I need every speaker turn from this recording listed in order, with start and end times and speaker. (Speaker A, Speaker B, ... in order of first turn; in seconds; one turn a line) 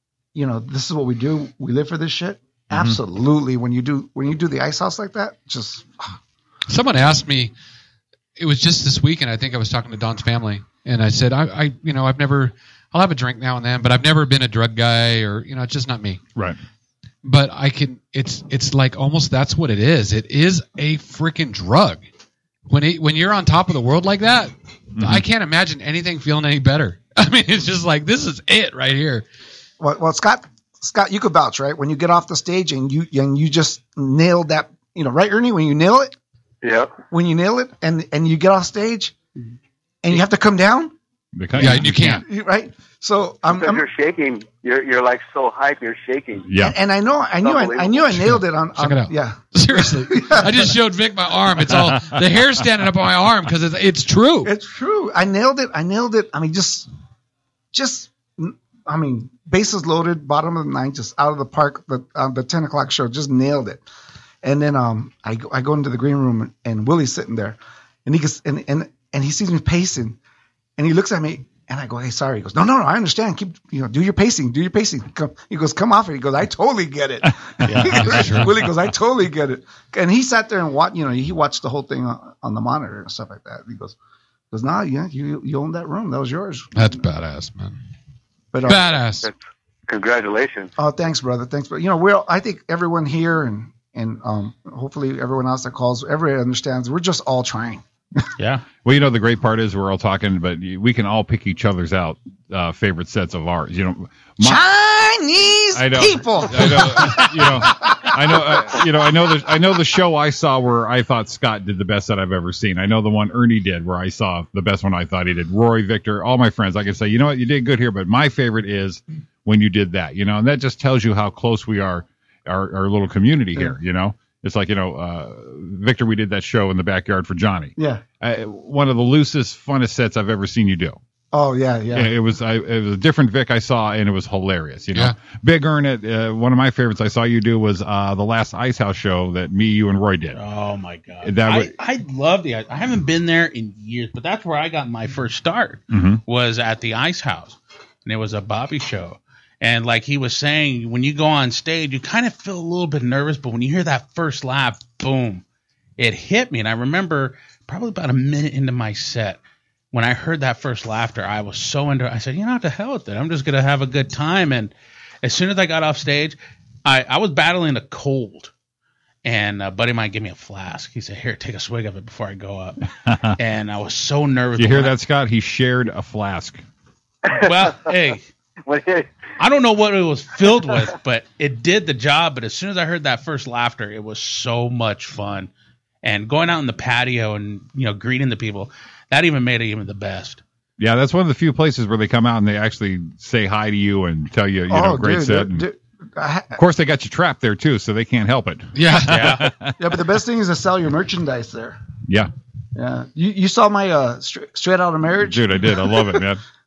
Speaker A: 0.3-6.2
Speaker B: 6.7-7.5
Speaker B: 8.4-16.2
Speaker B: 17.2-22.0
Speaker B: 22.7-29.2
Speaker C: 25.0-25.2
Speaker A: 29.8-36.1
Speaker D: 36.6-37.0
Speaker A: 37.1-39.2
Speaker A: 40.0-40.9
Speaker C: 41.4-42.2
Speaker B: 41.6-42.2
Speaker A: 41.6-43.9
Speaker D: 43.5-46.5
Speaker C: 46.5-46.8
Speaker A: 46.6-50.7
Speaker D: 47.4-48.2
Speaker B: 48.3-54.5
Speaker A: 54.4-56.9
Speaker A: 57.7-63.8
Speaker A: 64.4-70.2
Speaker A: 70.8-84.0
Speaker C: 77.6-78.2
Speaker B: 77.8-78.5
Speaker A: 84.5-87.0
Speaker B: 86.8-87.8
Speaker A: 88.5-88.9
Speaker B: 88.7-89.3
Speaker D: 89.9-90.7
Speaker A: 90.8-97.8
Speaker E: 98.4-98.6
Speaker C: 98.8-104.6
Speaker A: 104.4-108.8
Speaker C: 105.7-131.0
Speaker A: 127.8-128.0
Speaker A: 131.3-132.1
Speaker C: 131.9-140.4
Speaker E: 140.3-155.4
Speaker C: 141.2-141.7
Speaker C: 145.9-146.2
Speaker E: 156.0-159.4
Speaker E: 159.9-168.5
Speaker E: 169.2-172.8
Speaker C: 173.1-173.4
Speaker E: 173.4-174.9
Speaker C: 174.6-176.6
Speaker D: 177.3-177.9
Speaker E: 177.4-178.2
Speaker D: 178.7-179.1
Speaker E: 179.4-185.5
Speaker E: 186.0-190.4
Speaker C: 190.8-195.6
Speaker A: 194.7-196.6
Speaker C: 196.6-199.8
Speaker B: 198.8-199.4
Speaker E: 199.1-199.4
Speaker A: 199.8-201.8
Speaker A: 202.8-206.2
Speaker C: 205.2-206.4